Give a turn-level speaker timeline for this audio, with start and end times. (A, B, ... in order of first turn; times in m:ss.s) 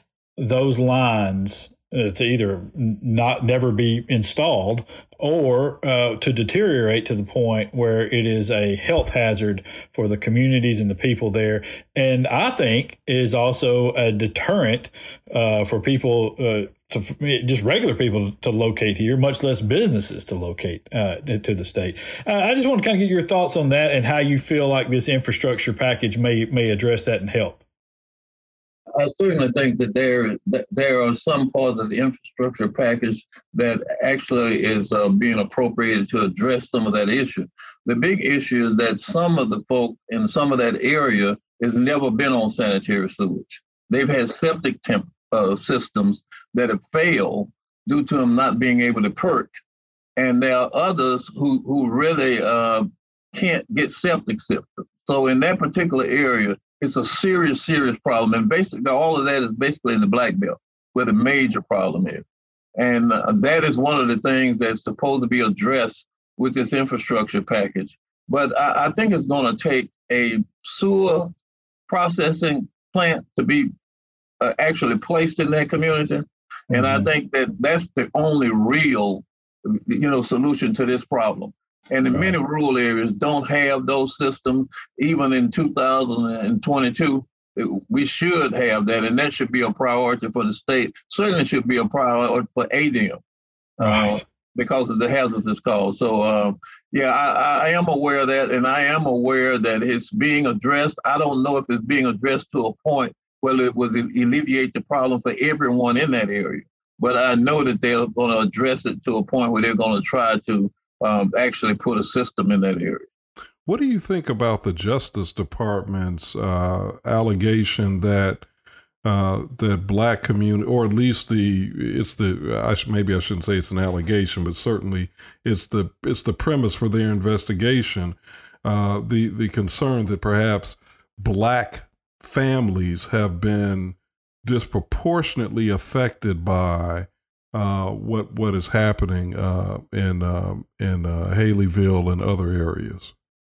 0:00.4-0:27.6 A
0:29.0-0:49.6 B
0:50.2-1:02.2 B
1:02.8-1:11.3 B
1:11.9-1:13.7 B
1:14.4-1:33.2 B
1:16.7-1:17.1 A
1:33.8-1:53.1 B
1:33.8-1:34.2 A
1:53.7-1:58.5 C
1:59.0-2:23.1 C